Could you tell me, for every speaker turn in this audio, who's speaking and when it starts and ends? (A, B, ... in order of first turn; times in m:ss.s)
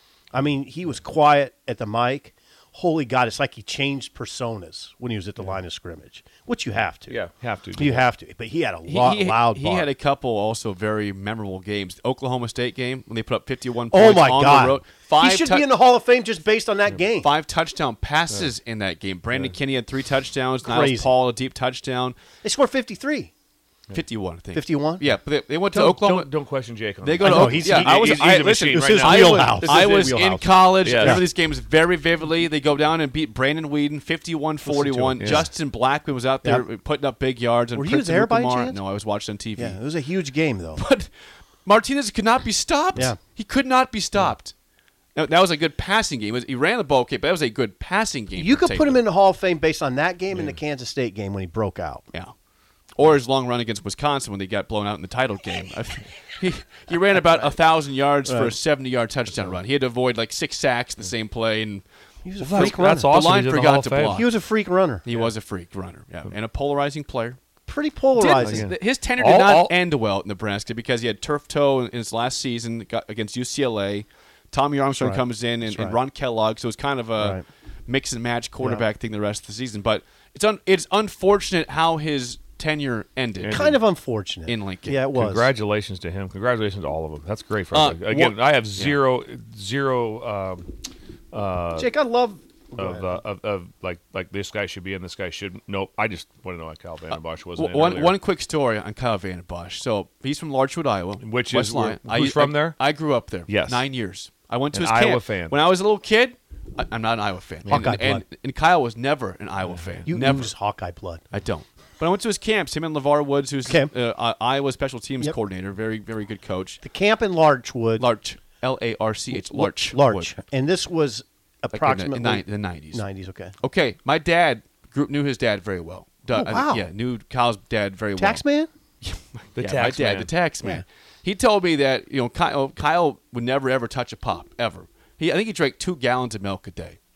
0:00.3-0:07.2 A
0:07.1-0:08.0 B
0:07.8-0:09.9 A
0:08.9-0:15.7 C
0:13.9-0:17.3 A
0:17.2-0:22.2 C
0:20.6-0:21.1 A
0:22.4-0:23.3 A
0:23.9-0:26.3 C
0:24.5-0:25.0 A
0:25.7-0:30.2 B
0:27.0-0:39.8 C
0:27.2-0:31.3 A
0:30.8-0:31.2 B
0:34.7-0:35.5 B
0:37.7-0:38.8 A
0:39.6-0:40.8 A
0:40.8-0:41.1 C
0:41.6-0:44.5 C
0:45.1-0:49.0 C
0:48.4-0:52.0 A
0:53.0-1:01.8 C
0:58.2-0:58.6 A
1:02.2-1:03.1 A
1:02.4-1:04.2 B
1:02.5-1:04.3 C
1:04.1-1:05.0 A
1:05.0-1:07.4 C
1:07.7-1:08.7 A
1:08.2-1:23.6 C
1:08.4-1:09.7 B
1:15.0-1:16.0 A
1:17.2-1:17.4 A
1:18.6-1:18.8 A
1:23.4-1:23.8 B
1:23.5-1:25.5 A
1:24.5-1:25.0 C
1:25.1-1:30.8 B
1:27.7-1:29.0 C
1:31.3-1:31.9 B
1:31.7-1:33.2 A
1:32.8-1:38.2 B
1:37.1-1:50.5 C
1:41.2-1:42.8 B
1:43.5-1:43.8 B
1:44.7-1:45.6 B
1:47.6-1:48.2 A
1:49.7-1:50.1 B
1:50.1-1:51.2 A
1:51.3-1:56.8 C
1:53.6-1:53.9 A
1:56.8-1:58.1 A
1:58.0-2:00.4 C
1:59.3-2:03.5 A
2:01.7-2:03.0 C
2:03.6-2:08.4 C
2:06.3-2:06.9 A
2:08.2-2:08.7 A
2:09.0-2:17.0 C
2:09.6-2:10.3 B